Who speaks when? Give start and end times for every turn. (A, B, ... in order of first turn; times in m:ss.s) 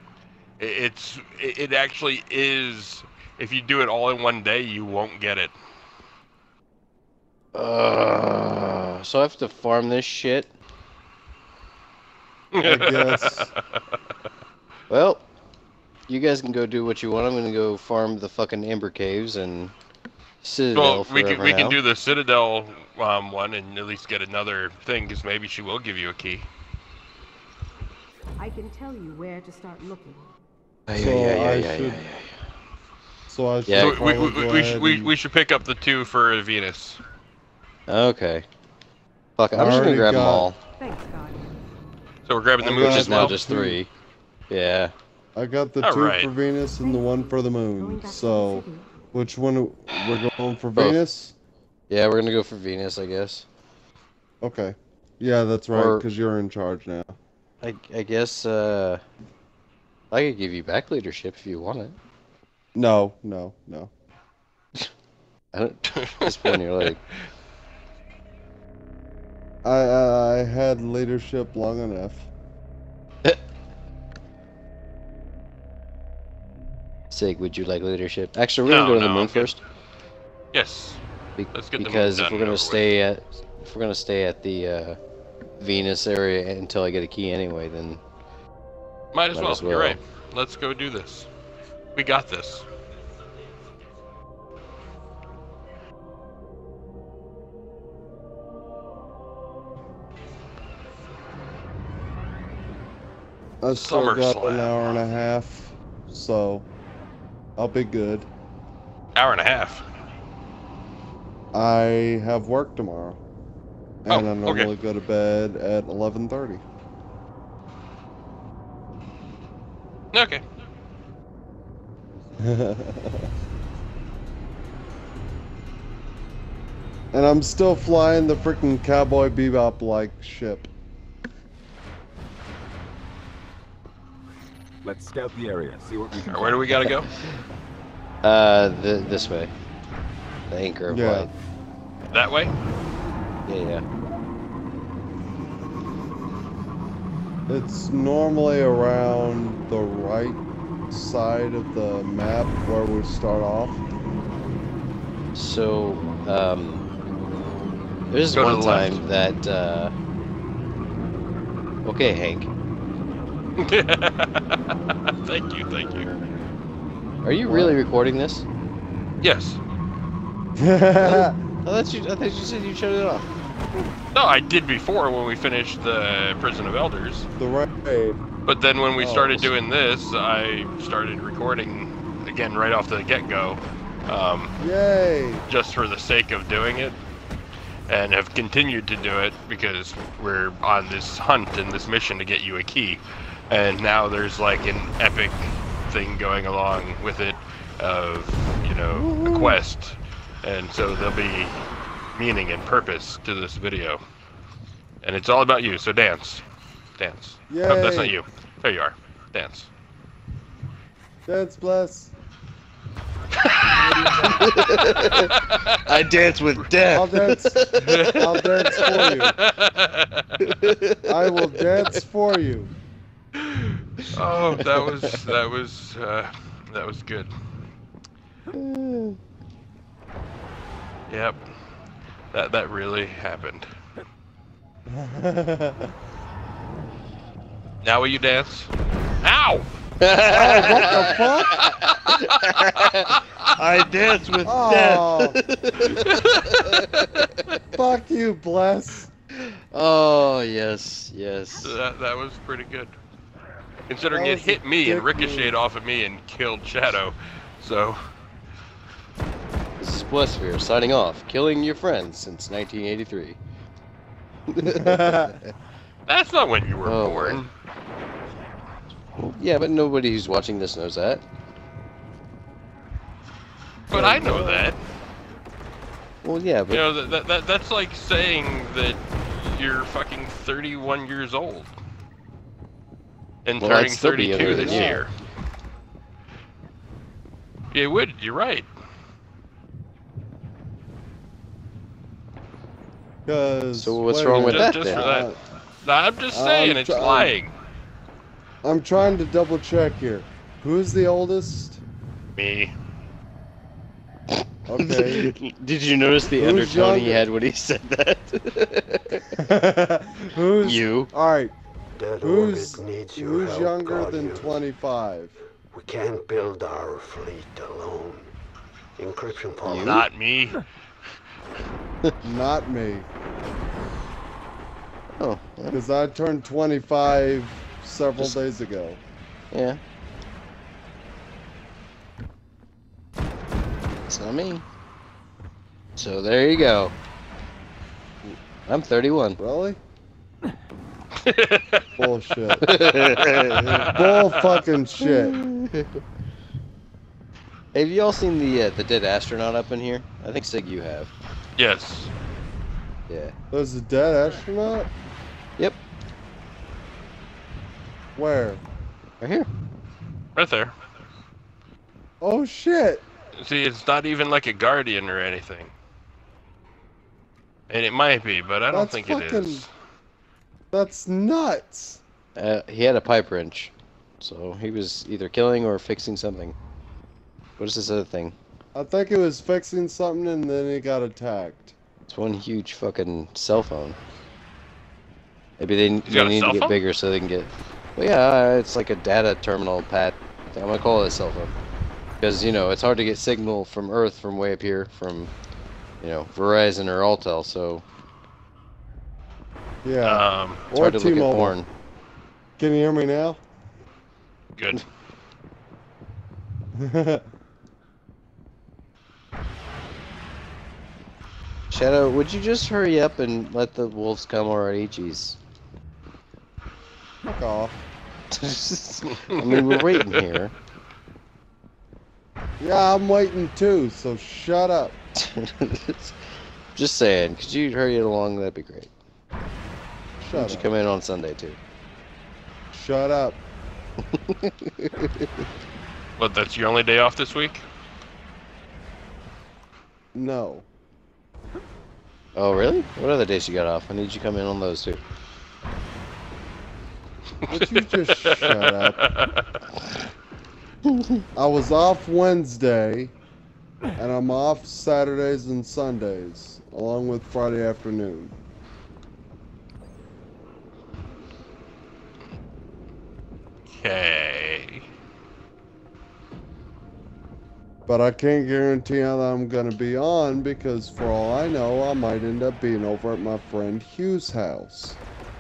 0:00.6-0:05.5 A
0:07.5-0:10.5 B
0:12.5-0:13.6 A
0:12.6-0:13.5 C
0:14.9-0:15.2 B
0:16.1-0:19.7 B
0:20.4-0:21.8 B
0:20.7-0:26.5 A
0:28.4-0:30.3 D
0:30.9-0:32.4 B
0:30.9-0:32.0 C
0:33.3-0:35.1 C
0:33.7-0:34.0 B
0:33.8-0:37.0 A
0:37.9-0:38.4 B
0:39.4-0:40.6 B
0:39.5-0:40.5 C
0:40.8-0:41.8 D
0:42.3-0:43.4 A
0:42.6-0:43.8 C
0:42.8-0:43.9 B
0:44.5-0:44.9 B
0:45.4-0:51.4 C
0:45.8-0:46.3 A
0:46.8-0:48.9 D
0:50.8-0:51.0 B
0:51.9-0:53.5 B
0:54.4-0:57.2 C
0:55.7-0:56.1 B
0:57.6-0:59.0 B
1:00.1-1:02.0 B
1:02.8-1:03.9 C
1:05.5-1:07.0 B
1:06.0-1:06.8 A
1:09.6-1:12.3 C
1:17.1-1:19.6 B
1:18.6-1:19.5 A
1:20.5-1:21.0 A
1:21.4-1:25.0 B
1:21.6-1:22.9 A
1:25.6-1:28.0 B
1:29.1-1:31.3 A
1:29.3-1:30.0 B
1:32.0-1:32.6 A
1:43.6-1:46.7 C
1:43.7-1:45.0 A
1:47.6-1:48.3 C
1:49.2-1:49.8 A
1:51.5-1:53.2 C
1:54.0-1:56.6 C
1:54.1-1:54.7 A
2:00.1-2:00.4 A
2:02.4-2:03.3 C
2:07.1-2:10.7 C
2:14.8-2:17.0 E
2:16.2-2:17.1 A
2:18.2-2:19.5 B
2:20.5-2:21.3 B
2:20.9-2:21.3 C
2:22.1-2:22.5 A
2:23.5-2:23.8 B
2:27.5-2:33.8 C
2:35.3-2:36.8 B
2:38.1-2:39.9 B
2:38.3-2:39.0 A
2:41.8-2:42.5 B
2:43.6-2:46.1 A
2:47.2-2:48.4 B
2:47.5-2:47.8 C
2:49.2-2:49.6 A
2:50.6-2:51.4 C
2:51.0-2:53.3 B
2:54.1-2:57.3 A
2:57.4-2:58.2 C
2:58.4-3:04.5 A
2:59.0-2:59.5 C
3:04.6-3:05.4 C
3:05.5-3:07.0 A
3:07.9-3:21.6 A
3:19.1-3:19.4 C
3:22.2-3:24.0 A
3:25.0-3:26.4 A
3:27.0-3:29.7 A
3:27.5-3:28.1 C
3:31.3-3:32.1 C
3:33.7-3:39.1 B
3:35.3-3:35.8 A
3:36.9-3:39.4 C
3:37.8-3:40.3 A
3:40.4-3:42.0 B
3:41.1-3:42.7 C
3:43.4-3:47.3 A
3:44.0-3:45.3 B
3:48.5-3:49.2 B
3:51.1-3:51.4 A
3:52.3-3:53.7 A
3:54.9-3:55.9 C
3:57.8-3:58.7 A
3:59.2-3:59.7 A
4:00.0-4:07.4 B
4:00.3-4:01.6 C
4:00.7-4:03.5 A
4:04.4-4:05.4 C
4:06.1-4:07.3 A
4:07.7-4:09.1 C
4:09.3-4:11.8 B
4:11.6-4:12.9 A
4:13.9-4:18.0 A
4:14.1-4:15.5 C
4:19.8-4:23.4 B
4:24.5-4:25.5 B
4:24.6-4:25.4 C
4:26.1-4:27.5 A
4:26.8-4:27.4 B
4:29.2-4:31.2 B
4:33.9-4:34.8 A
4:33.9-4:34.6 C
4:33.9-4:34.6 B
4:36.2-4:36.8 B
4:36.7-4:41.7 A
4:43.4-4:45.1 A
4:43.6-4:45.0 B
4:44.4-4:45.0 C
4:47.7-4:48.7 A
4:53.3-4:55.4 C
4:53.7-4:55.1 B
4:54.3-4:55.3 A
4:55.8-4:57.5 A
4:56.3-4:57.3 C
4:58.6-5:01.8 C
5:02.4-5:02.7 A
5:04.3-5:09.3 B
5:04.7-5:05.3 C
5:06.4-5:07.2 C
5:09.4-5:11.6 C
5:10.6-5:11.1 B
5:12.0-5:14.6 F
5:12.2-5:15.4 C
5:15.7-5:18.3 F
5:19.0-5:20.0 F
5:19.6-5:20.0 B
5:19.8-5:20.6 A
5:22.2-5:23.1 C
5:25.2-5:25.8 B
5:25.7-5:29.0 C
5:29.5-5:29.8 B
5:34.1-5:34.6 B
5:36.0-5:36.9 B
5:38.7-5:39.4 B
5:39.4-5:39.8 C
5:41.2-5:41.9 A
5:42.0-5:42.9 C
5:42.6-5:43.9 B
5:42.7-5:44.6 A
5:43.6-5:45.4 C
5:45.0-5:45.9 B
5:47.7-5:51.1 B
5:51.6-5:52.1 A
5:53.1-5:53.4 B
5:53.5-5:54.9 C
5:58.2-5:58.6 C
5:59.2-5:59.5 B
6:00.4-6:00.7 A
6:02.2-6:03.0 C
6:03.4-6:05.7 A
6:07.7-6:09.7 A
6:08.7-6:09.6 C
6:10.7-6:12.0 C
6:12.4-6:16.6 B
6:17.6-6:18.4 B
6:18.8-6:21.8 C
6:22.1-6:24.0 B
6:25.6-6:31.5 B
6:26.1-6:26.8 A
6:32.2-6:35.3 B
6:36.0-6:37.8 B
6:39.8-6:41.6 C
6:40.0-6:40.6 A
6:40.8-6:41.7 B
6:42.6-6:43.4 C
6:44.6-6:44.8 A
6:46.8-6:47.2 C
6:51.7-6:55.4 B
6:57.2-6:57.8 C
6:58.3-7:00.5 B
6:59.2-7:00.2 A
7:02.6-7:05.0 C
7:05.2-7:06.2 B
7:06.8-7:08.9 B
7:10.2-7:10.7 C
7:10.3-7:11.6 B
7:12.7-7:13.4 C
7:14.1-7:15.4 B
7:16.2-7:17.6 A
7:20.1-7:20.7 C
7:22.4-7:25.0 B
7:27.5-7:29.5 A
7:27.5-7:29.1 C
7:30.9-7:31.2 B
7:31.4-7:33.1 C
7:34.0-7:38.3 C
7:43.7-7:44.8 A
7:47.9-7:55.0 C